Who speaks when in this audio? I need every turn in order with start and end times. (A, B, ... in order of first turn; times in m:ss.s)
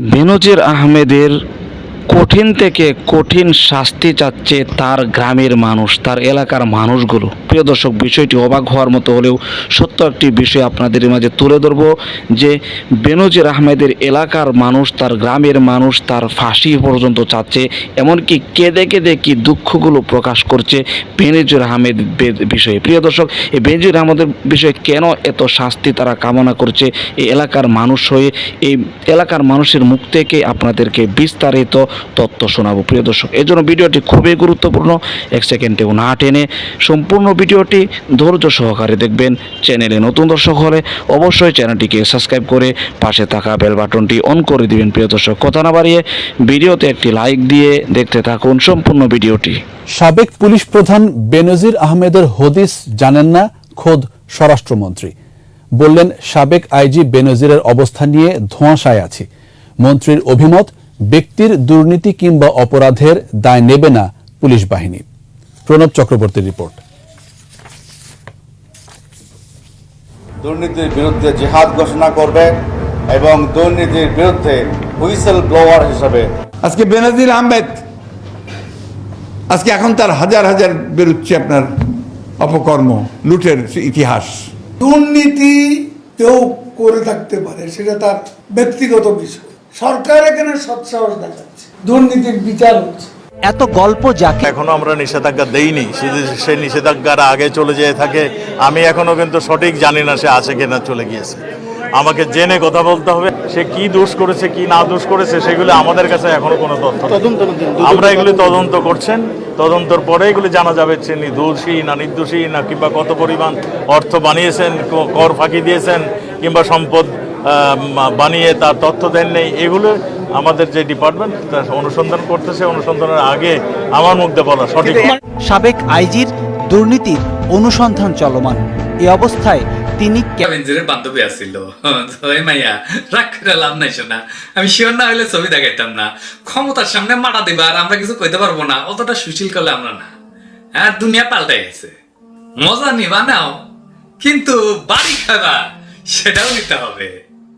0:00.1-0:01.3 A
0:02.1-0:49.6 A
0:50.0-0:55.1 B
0:55.8-0:59.3 B
0:59.8-1:05.1 B
1:05.7-1:06.8 B
1:10.4-1:12.5 C
1:13.1-1:16.3 C
1:16.6-1:17.8 D
1:19.5-1:21.7 D
1:22.4-1:24.5 D
1:24.8-1:33.1 E
1:33.5-1:34.5 F
1:34.4-1:41.4 G
1:42.0-2:05.2 G
2:05.4-2:10.4 F
2:10.4-2:20.1 H
2:20.8-2:21.9 H
2:22.6-2:23.5 H
2:24.2-2:25.6 H
2:26.1-2:27.1 H